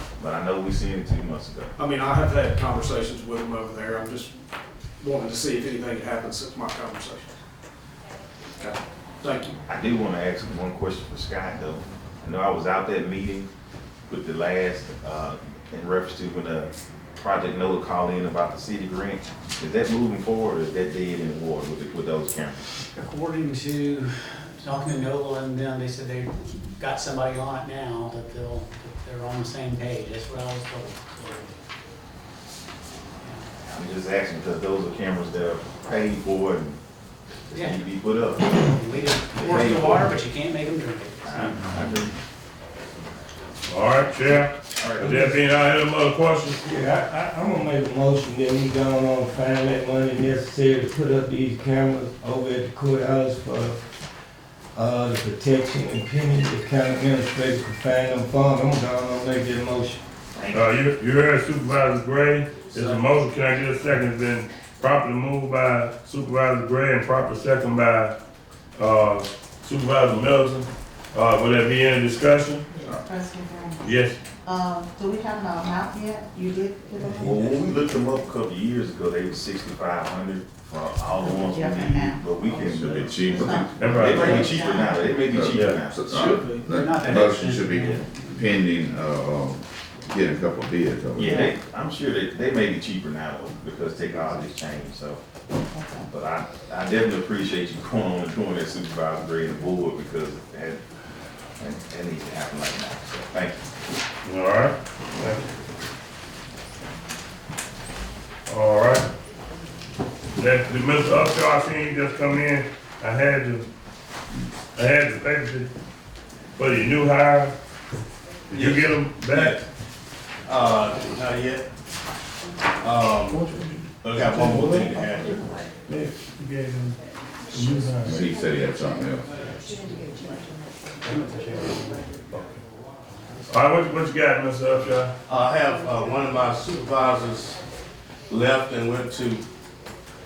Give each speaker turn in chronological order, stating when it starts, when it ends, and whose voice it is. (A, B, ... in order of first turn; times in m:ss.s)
0:00.2-0:01.7 A
0:01.8-0:04.3 B
0:05.0-0:07.3 B
0:08.6-0:09.6 B
0:09.7-0:13.5 A
0:14.1-0:22.7 A
0:22.9-0:31.5 C
0:33.2-0:33.5 C
0:33.6-0:36.8 A
0:37.5-0:38.6 A
0:37.5-0:37.8 C
0:38.4-0:41.8 C
0:39.3-0:40.2 A
0:41.2-0:42.1 A
0:43.7-0:46.6 D
0:44.8-0:45.2 A
0:45.0-0:45.4 E
0:46.6-0:53.8 E
0:54.7-1:00.0 E
1:00.3-1:00.7 F
1:00.5-1:08.1 D
1:08.8-1:12.7 D
1:12.8-1:13.9 F
1:13.8-1:14.2 D
1:14.4-1:17.6 F
1:17.1-1:23.3 A
1:21.2-1:22.2 F
1:22.5-1:23.3 B
1:22.7-1:24.0 G
1:23.2-1:25.2 F
1:23.8-1:24.5 D
1:23.9-1:26.4 A
1:25.3-1:31.5 G
1:25.5-1:25.8 D
1:26.2-1:26.6 B
1:26.6-1:28.6 C
1:31.2-1:35.2 A
1:31.2-1:31.5 F
1:35.7-1:36.1 F
1:36.1-1:40.8 A
1:41.6-1:43.6 A
1:44.2-1:45.4 D
1:48.5-1:49.0 D
1:50.4-1:53.6 D
1:54.8-1:55.7 D
1:56.6-1:57.5 D
1:58.5-1:59.6 D
1:58.5-1:59.6 H
2:00.4-2:01.6 H
2:02.8-2:03.4 H
2:03.3-2:03.7 D
2:04.0-2:05.5 H
2:04.4-2:05.0 E
2:05.9-2:07.0 D
2:07.5-2:08.2 D
2:08.0-2:09.2 G
2:11.0-2:12.1 C
2:13.5-2:15.1 D
2:15.3-2:17.6 H
2:18.3-2:19.4 H